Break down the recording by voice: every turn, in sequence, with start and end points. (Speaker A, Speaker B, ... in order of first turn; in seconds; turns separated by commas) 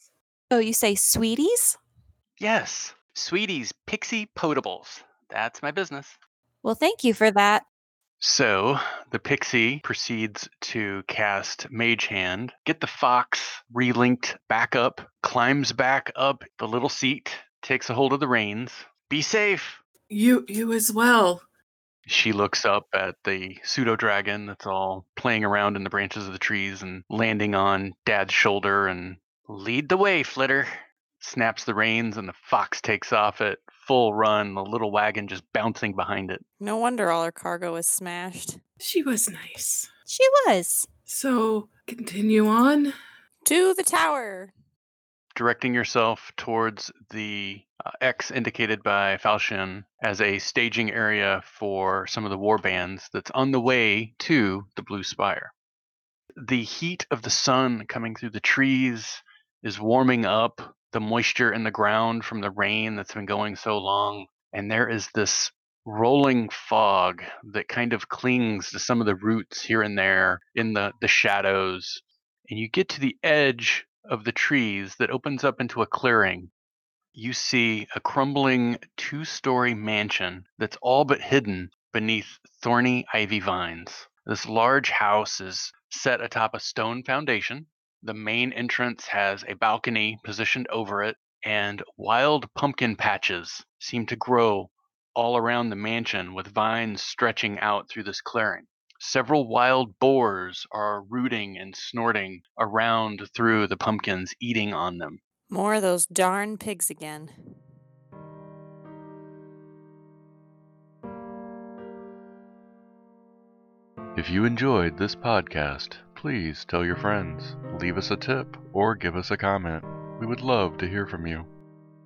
Speaker A: 0.5-1.8, Speaker B: 2.4-6.1, Speaker A: 6.6-7.6, Speaker C: 8.2-18.9, Speaker B: 19.1-19.8, Speaker D: 20.1-21.4, Speaker C: 22.1-29.3, Speaker B: 29.4-30.7, Speaker C: 31.2-36.4, Speaker E: 36.6-38.6, Speaker D: 38.8-39.9, Speaker A: 40.1-40.9, Speaker D: 41.1-42.9, Speaker E: 43.5-44.5, Speaker C: 45.3-55.5, Speaker C: 56.4-76.5, Speaker C: 77.1-105.2, Speaker E: 105.5-107.3, Speaker F: 114.1-121.5